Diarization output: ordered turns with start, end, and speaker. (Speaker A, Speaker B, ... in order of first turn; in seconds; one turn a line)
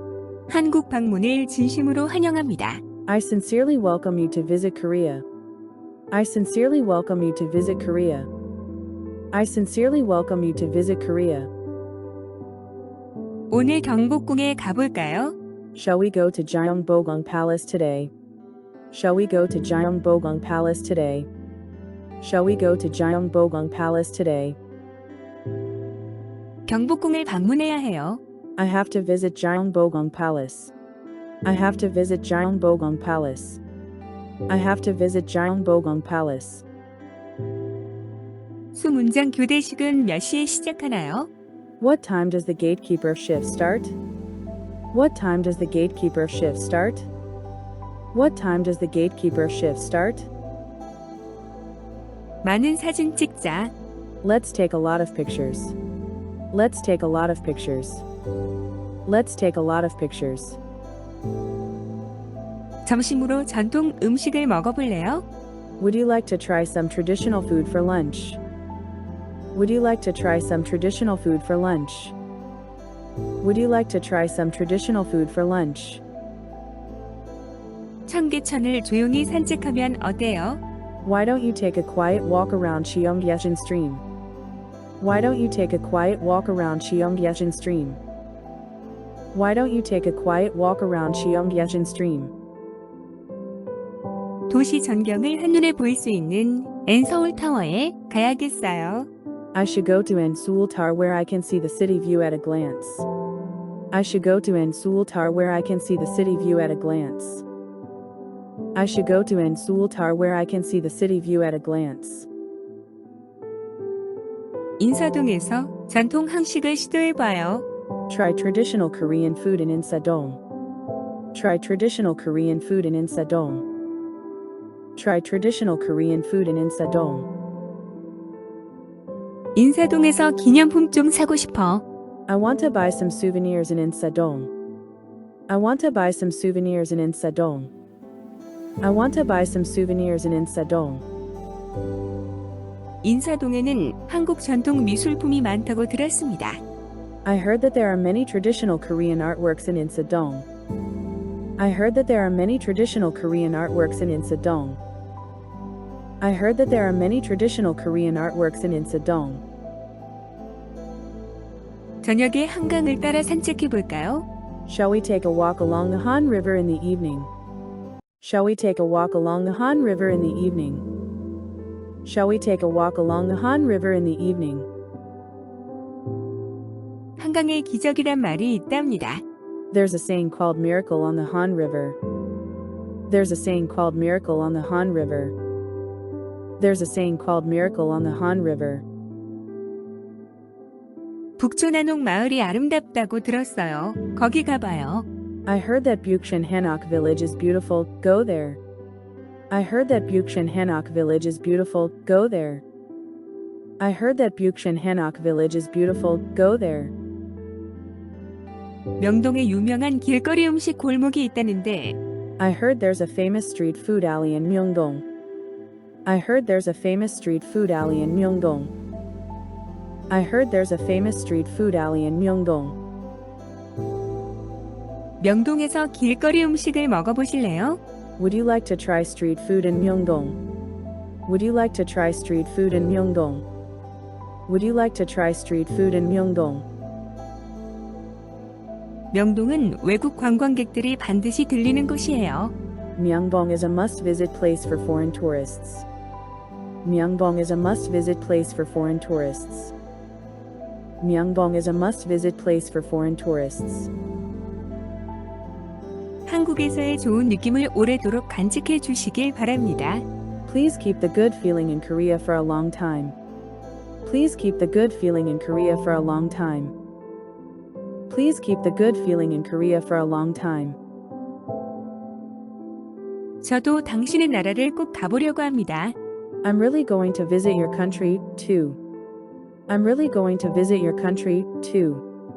Speaker A: 0.5-2.8
Speaker B: 3.1-5.2
Speaker B: 6.1-8.3
Speaker B: 9.3-11.5
Speaker A: 13.5-15.3
Speaker B: 15.8-18.1
Speaker B: 18.9-21.3
Speaker B: 22.2-24.6
Speaker A: 26.7-28.2
Speaker B: 28.6-30.7
Speaker B: 31.4-33.6
Speaker B: 34.5-36.6
Speaker A: 38.7-41.3
Speaker B: 41.8-44.0
Speaker B: 44.9-47.1
Speaker B: 48.1-50.3
Speaker A: 52.4-53.7
Speaker B: 54.2-55.8
Speaker B: 56.5-58.0
Speaker B: 59.1-60.6
Speaker A: 62.9-65.2
Speaker B: 65.8-68.4
Speaker B: 69.5-72.2
Speaker B: 73.4-76.0
Speaker A: 78.1-80.6
Speaker B: 81.0-84.0
Speaker B: 85.0-88.0
Speaker B: 89.3-92.3
Speaker A: 94.5-99.1
Speaker B: 99.5-103.1
Speaker B: 103.9-107.5
Speaker B: 108.8-112.3
Speaker A: 114.8-117.7
Speaker B: 118.1-120.4
Speaker B: 121.3-123.7
Speaker B: 125.0-127.3
Speaker A: 129.6-131.8
Speaker B: 132.3-134.5
Speaker B: 135.5-137.7
Speaker B: 138.8-141.0
Speaker A: 143.0-146.6
Speaker B: 147.2-150.4
Speaker B: 151.6-154.8
Speaker B: 156.2-159.4
Speaker A: 162.0-164.2
Speaker B: 164.7-167.3
Speaker B: 168.2-170.8
Speaker B: 172.1-174.7
Speaker A: 177.2-179.2
Speaker B: 179.7-182.0
Speaker B: 183.1-185.3
Speaker B: 186.6-188.8
Speaker A: 191.4-195.1
Speaker B: 195.5-198.6
Speaker B: 199.5-202.6
Speaker B: 203.8-206.9
Speaker A: 209.0-212.0
Speaker B: 212.4-215.0
Speaker B: 216.1-218.7
Speaker B: 220.1-222.8
Speaker A: 225.2-227.8
Speaker B: 228.2-230.4
Speaker B: 231.3-233.4
Speaker B: 234.5-236.7
Speaker A: 239.1-242.5
Speaker B: 243.0-245.9
Speaker B: 246.8-249.7
Speaker B: 251.0-253.9
Speaker A: 256.3-260.1
Speaker B: 260.5-263.1
Speaker B: 264.0-266.7
Speaker B: 268.1-270.8
Speaker A: 273.4-275.9
Speaker B: 276.4-278.8
Speaker B: 279.7-282.0